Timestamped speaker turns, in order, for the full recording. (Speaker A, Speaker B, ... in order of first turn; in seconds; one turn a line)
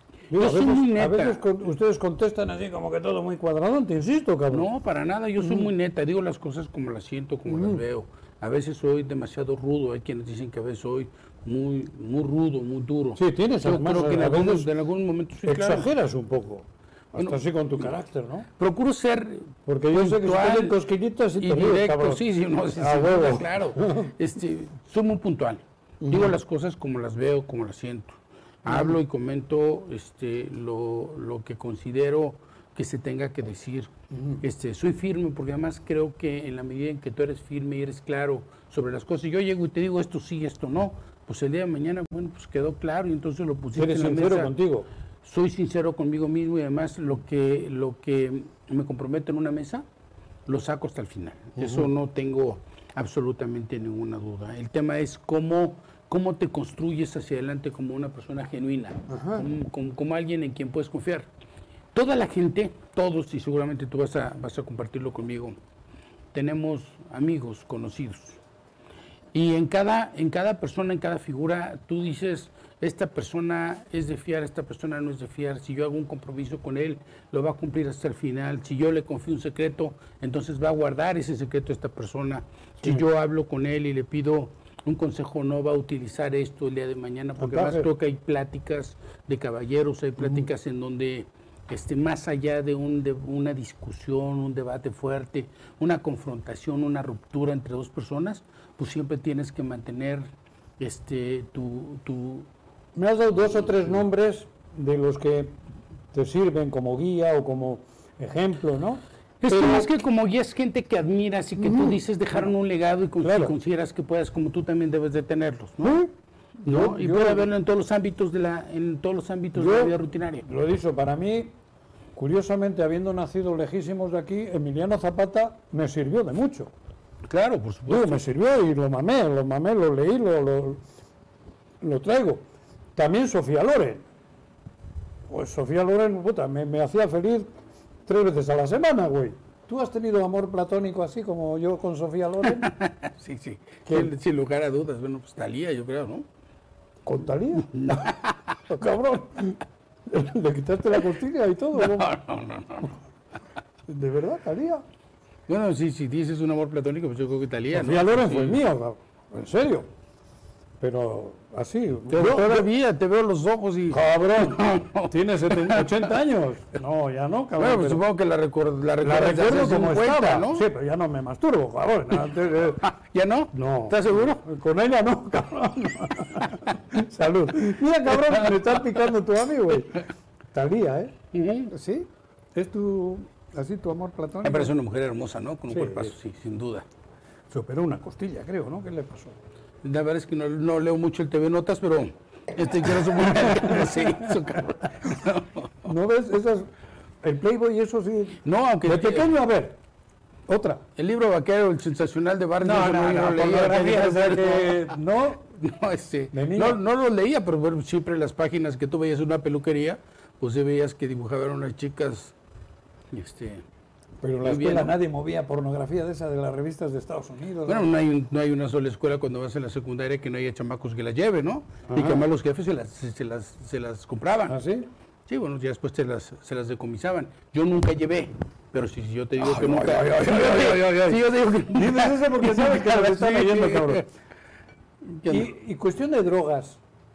Speaker A: 0.3-4.7
Speaker B: 0.3-1.4
Speaker B: 4.5-15.9
Speaker A: 7.5-7.8
Speaker A: 13.2-14.7
Speaker A: 15.4-18.5
Speaker B: 17.2-17.8
Speaker B: 18.6-20.8
Speaker A: 19.7-24.1
Speaker B: 21.4-44.5
Speaker A: 26.0-26.3
Speaker A: 28.7-29.0
Speaker A: 34.1-34.4
Speaker A: 43.7-44.9
Speaker B: 45.2-49.9
Speaker B: 50.5-61.3
Speaker A: 51.6-51.9
Speaker A: 59.1-59.5
Speaker B: 61.9-65.5
Speaker B: 66.3-68.4
Speaker B: 69.3-100.3
Speaker A: 87.4-87.9
Speaker B: 100.8-102.5
Speaker A: 103.0-105.5
Speaker A: 106.1-109.9
Speaker B: 109.4-116.0
Speaker A: 111.6-112.0
Speaker A: 113.2-113.5
Speaker A: 115.8-117.5
Speaker B: 116.7-120.5
Speaker A: 119.6-121.5
Speaker A: 122.2-126.7
Speaker B: 127.2-128.2
Speaker A: 127.9-130.8
Speaker A: 131.8-132.4
Speaker A: 133.0-134.0
Speaker A: 135.3-137.5
Speaker A: 138.1-142.7
Speaker B: 142.4-146.3
Speaker A: 143.9-144.1
Speaker A: 147.1-148.1
Speaker B: 147.6-148.6
Speaker A: 148.7-152.2
Speaker B: 151.7-152.9
Speaker A: 153.9-154.8
Speaker B: 155.5-158.6
Speaker A: 157.7-159.9
Speaker A: 160.8-162.7
Speaker B: 162.1-166.1
Speaker A: 163.9-168.0
Speaker B: 167.6-170.7
Speaker A: 169.0-172.9
Speaker B: 172.3-174.4
Speaker A: 173.5-181.2
Speaker B: 178.1-178.8
Speaker B: 181.3-181.7
Speaker A: 181.7-184.8
Speaker B: 184.4-186.9
Speaker A: 185.7-186.1
Speaker A: 187.5-189.4
Speaker B: 189.8-195.9
Speaker A: 193.2-194.3
Speaker A: 195.8-196.7
Speaker A: 197.2-199.8
Speaker B: 198.4-199.3
Speaker A: 200.5-200.8
Speaker B: 201.0-205.0
Speaker A: 202.6-205.4
Speaker B: 205.6-212.3
Speaker A: 206.3-206.8
Speaker B: 213.1-213.7
Speaker A: 214.2-217.9
Speaker B: 214.4-215.0
Speaker B: 217.7-224.6
Speaker A: 221.9-222.2
Speaker A: 224.5-224.9
Speaker B: 225.3-234.1
Speaker A: 229.4-234.1
Speaker B: 235.2-235.5
Speaker A: 235.2-236.8